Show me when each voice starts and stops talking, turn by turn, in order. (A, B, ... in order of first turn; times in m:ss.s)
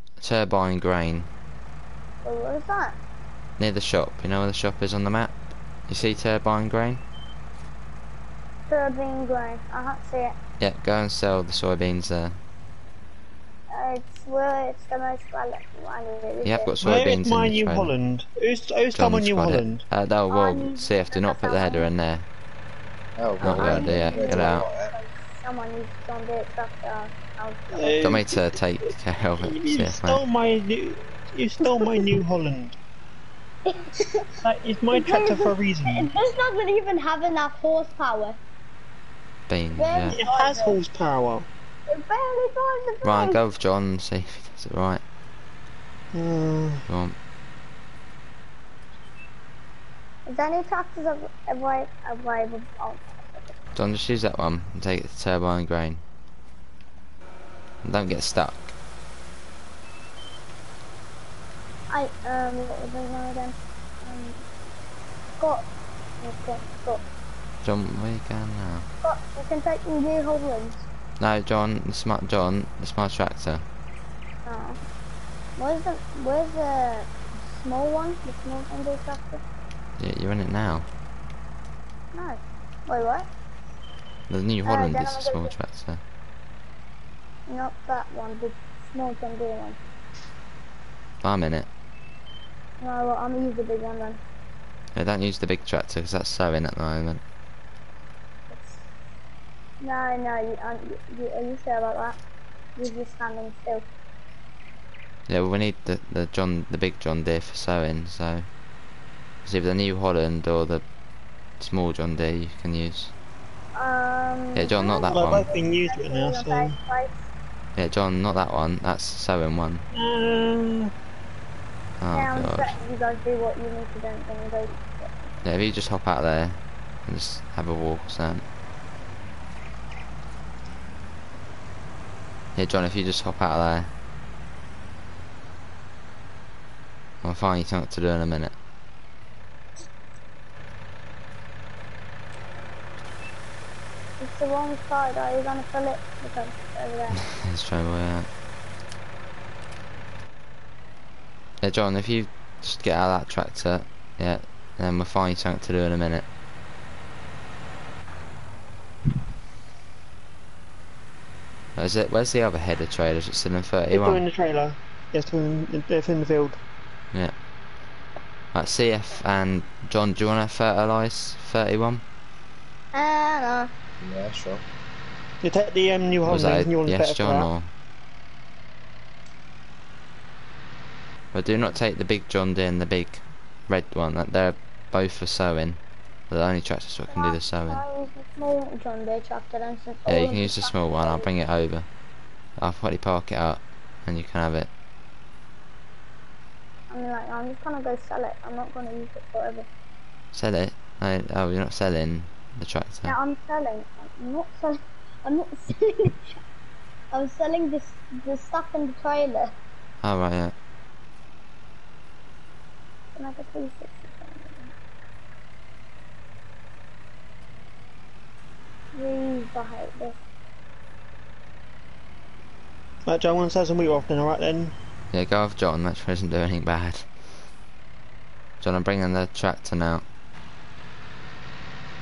0:00.2-0:01.3 A
0:02.2-0:03.0 B
0:03.6-0:07.0 A
0:08.7-0:10.4 B
0:10.6-0:12.4 A
0:13.7-0:16.8 B
0:16.4-0:17.9 A
0:16.8-0:19.8 C
0:19.0-0:22.3 A
0:20.3-0:21.9 B
0:23.2-0:24.9 D
0:23.4-0:24.7 A
0:23.4-0:28.2 B
0:27.7-0:28.5 C
0:28.0-0:30.2 A
0:29.4-0:32.8 C
0:31.6-0:32.1 B
0:33.6-0:34.4 B
0:34.4-0:36.1 C
0:34.9-0:38.4 B
0:39.5-0:40.2 A
0:39.7-0:40.8 B
0:40.1-0:41.5 C
0:41.9-0:43.4 B
0:43.0-0:45.0 A
0:46.1-0:46.8 C
0:46.9-0:47.2 A
0:50.3-0:53.5 B
0:53.8-0:56.0 A
0:57.8-0:58.7 A
1:01.9-1:04.4 B
1:05.4-1:05.6 B
1:06.2-1:07.0 B
1:07.6-1:08.9 A
1:09.0-1:10.9 B
1:11.2-1:13.6 A
1:14.4-1:14.8 B
1:15.6-1:19.4 B
1:20.0-1:20.9 A
1:22.1-1:23.3 B
1:24.3-1:26.0 A
1:24.7-1:25.5 B
1:27.5-1:29.8 B
1:31.2-1:31.7 A
1:32.8-1:34.2 B
1:35.0-1:37.2 A
1:38.5-1:38.8 B
1:39.8-1:42.2 B
1:42.8-1:43.8 B
1:45.3-1:48.5 A
1:49.4-1:50.8 A
1:51.6-1:53.1 A
1:53.8-1:57.2 B
1:54.5-1:55.4 A
1:55.1-1:56.8 C
1:57.8-1:59.8 A
1:59.9-2:00.9 C
2:02.0-2:02.7 A
2:02.1-2:05.2 B
2:05.4-2:08.5 A
2:12.6-2:13.9 A
2:17.2-2:18.5 A
2:24.2-2:27.2 B
2:27.3-2:28.3 A
2:31.6-2:36.3 A
2:41.8-2:44.2 A
2:43.9-2:46.6 C
2:48.5-2:52.0 A
2:52.9-2:53.7 B
2:54.0-2:54.6 D
2:55.4-2:57.5 C
2:56.2-2:57.7 A
3:01.3-3:07.8 A
3:07.1-3:11.3 B
3:10.1-3:11.9 A
3:12.6-3:14.7 A
3:16.9-3:19.7 B
3:20.3-3:23.2 A
3:23.1-3:26.4 B
3:27.1-3:29.5 B
3:30.0-3:30.5 A
3:33.2-3:34.7 B
3:38.9-3:40.2 B
3:43.1-3:44.7 C
3:45.1-3:47.1 A
3:48.6-3:50.0 A